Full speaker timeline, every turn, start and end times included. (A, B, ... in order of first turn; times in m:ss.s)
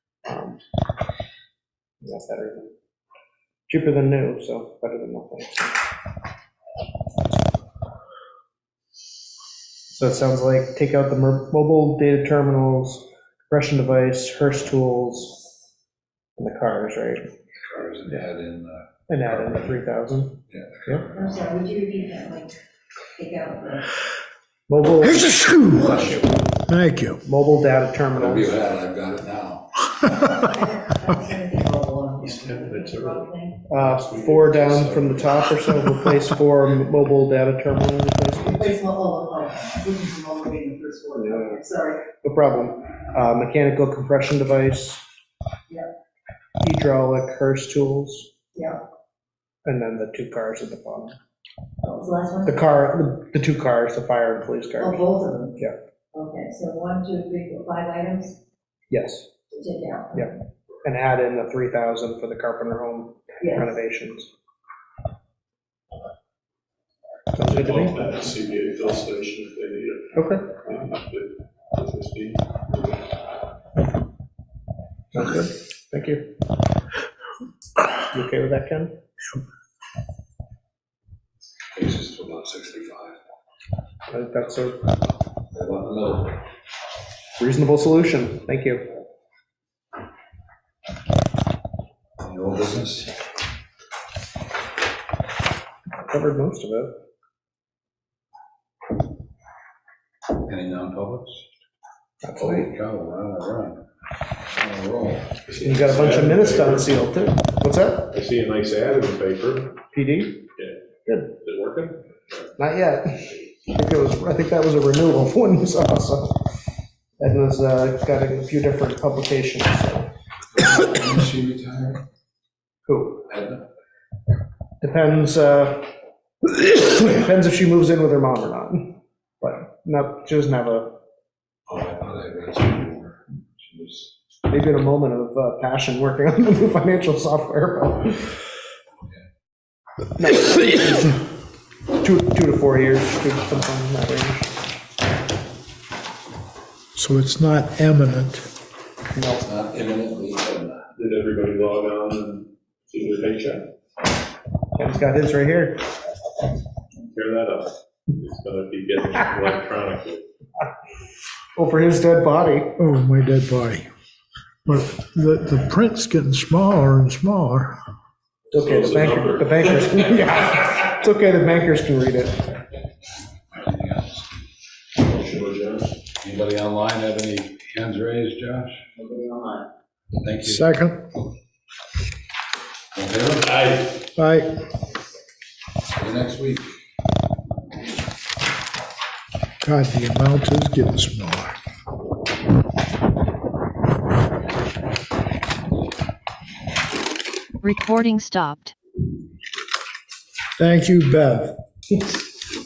0:00.2-0:00.6 A
0:02.0-0:02.7 A
0:03.7-0:05.8 A
0:09.9-0:15.4 A
0:16.4-0:17.3 A
0:17.7-0:19.8 B
0:19.1-0:21.0 A
0:20.5-0:21.5 B
0:21.1-0:22.6 C
0:23.2-0:23.9 C
0:24.7-0:25.4 A
0:25.0-0:26.1 D
0:25.7-0:26.5 B
0:26.6-0:27.2 D
0:27.2-0:28.6 A
0:28.2-0:29.9 B
0:30.2-0:33.6 C
0:32.2-0:34.6 E
0:33.7-0:38.8 A
0:34.5-0:35.5 B
0:38.5-0:42.0 C
0:41.2-0:41.6 A
0:42.1-0:45.0 A
0:46.6-0:48.3 A
0:48.5-0:48.8 C
0:49.6-0:51.2 A
0:51.8-0:52.6 C
0:52.5-0:55.1 A
0:54.8-0:55.6 C
0:56.1-0:58.4 C
0:58.9-0:59.3 A
0:59.5-1:00.3 C
1:00.1-1:04.3 A
1:03.4-1:03.7 C
1:07.4-1:08.2 A
1:07.4-1:13.0 E
1:10.1-1:10.5 A
1:15.1-1:16.3 A
1:18.0-1:18.9 A
1:21.8-1:23.2 B
1:24.1-1:24.8 A
1:25.5-1:26.4 B
1:27.4-1:28.9 A
1:32.2-1:33.1 B
1:36.0-1:36.9 A
1:40.4-1:41.4 B
1:42.2-1:42.7 A
1:42.4-1:43.8 B
1:44.5-1:45.9 B
1:45.4-1:47.0 E
1:45.6-1:48.1 A
1:48.1-1:49.8 E
1:49.9-1:50.4 A
1:51.3-1:52.5 E
1:52.6-1:56.4 A
1:57.2-2:00.1 A
2:00.5-2:02.0 B
2:02.9-2:03.2 A
2:03.3-2:03.6 B
2:04.8-2:05.9 A
2:06.4-2:11.0 A
2:11.7-2:14.1 B
2:14.5-2:18.4 A
2:20.2-2:21.2 A
2:22.0-2:24.6 A
2:27.0-2:28.5 D
2:29.1-2:29.4 A
2:29.4-2:30.9 B
2:31.0-2:33.7 E
2:34.8-2:35.8 A
2:37.0-2:40.2 E
2:41.6-2:42.8 A
2:42.8-2:43.9 D
2:44.6-2:47.8 D
2:48.5-2:52.6 A
2:48.5-2:50.1 E
2:53.5-2:54.3 B
2:55.0-2:56.0 E
2:56.2-2:58.8 B
3:00.2-3:00.6 B
3:00.4-3:01.1 D
3:03.0-3:03.5 B
3:03.4-3:04.0 E
3:04.2-3:04.6 D
3:06.0-3:06.7 B
3:09.6-3:11.6 D
3:17.6-3:18.7 C
3:20.6-3:21.6 D